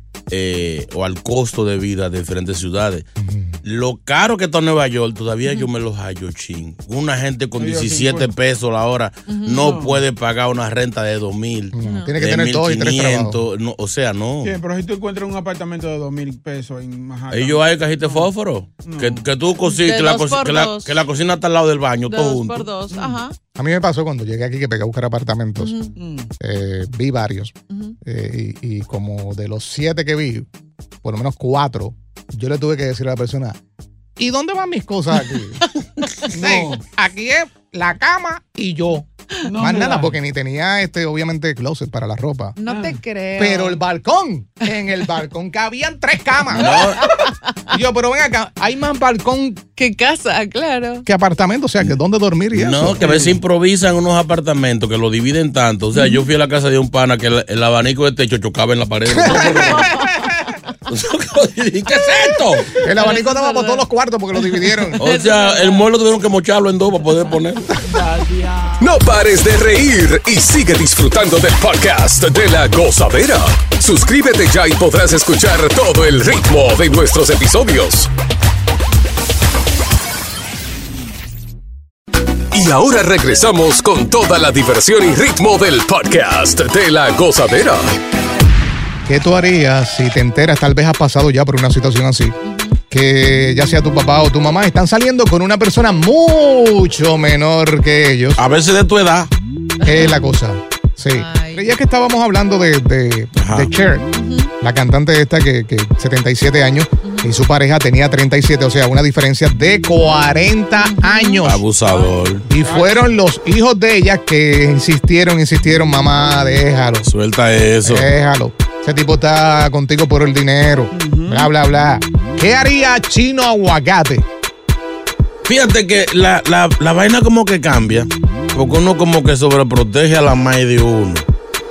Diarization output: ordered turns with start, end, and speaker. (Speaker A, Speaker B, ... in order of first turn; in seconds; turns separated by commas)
Speaker A: 0.3-3.1, Speaker B: 3.2-3.6, Speaker A: 3.6-14.6, Speaker C: 7.6-8.3, Speaker D: 9.3-9.7, Speaker C: 9.7-10.0, Speaker B: 11.7-13.4, Speaker D: 11.8-12.2, Speaker C: 14.4-18.3, Speaker A: 17.3-22.7, Speaker C: 18.8-19.2, Speaker D: 19.7-21.0, Speaker D: 22.1-23.4, Speaker C: 22.9-23.2, Speaker B: 23.6-25.8, Speaker D: 25.6-25.9, Speaker C: 25.9-26.3, Speaker B: 26.4-27.5, Speaker B: 28.1-30.5, Speaker B: 31.0-33.6, Speaker B: 34.2-35.6, Speaker B: 36.3-42.6, Speaker C: 36.3-36.8, Speaker C: 39.4-40.2, Speaker D: 42.6-43.8, Speaker C: 42.7-43.0, Speaker B: 43.4-46.8, Speaker A: 46.5-47.1, Speaker D: 46.6-47.3, Speaker B: 47.7-49.6, Speaker D: 49.8-51.0, Speaker B: 51.1-53.4, Speaker A: 52.5-59.9, Speaker B: 59.1-59.9, Speaker D: 59.3-60.3, Speaker A: 60.9-62.7, Speaker B: 62.8-65.0, Speaker D: 63.0-63.9, Speaker D: 64.7-65.9, Speaker A: 65.0-67.8, Speaker C: 67.8-68.8, Speaker E: 68.8-78.1, Speaker E: 82.5-88.0, Speaker B: 89.1-92.4, Speaker D: 92.4-92.8, Speaker B: 92.9-98.4, Speaker A: 98.4-99.3, Speaker D: 99.8-100.2, Speaker B: 99.8-104.1, Speaker D: 101.1-101.7, Speaker A: 103.4-103.7, Speaker D: 104.1-104.5, Speaker B: 104.6-111.7, Speaker D: 107.0-107.3, Speaker D: 110.8-111.4, Speaker A: 111.4-112.5, Speaker B: 112.5-117.1, Speaker C: 112.6-113.0, Speaker A: 117.0-118.1, Speaker B: 117.8-124.3, Speaker C: 120.9-121.5, Speaker A: 125.5-131.2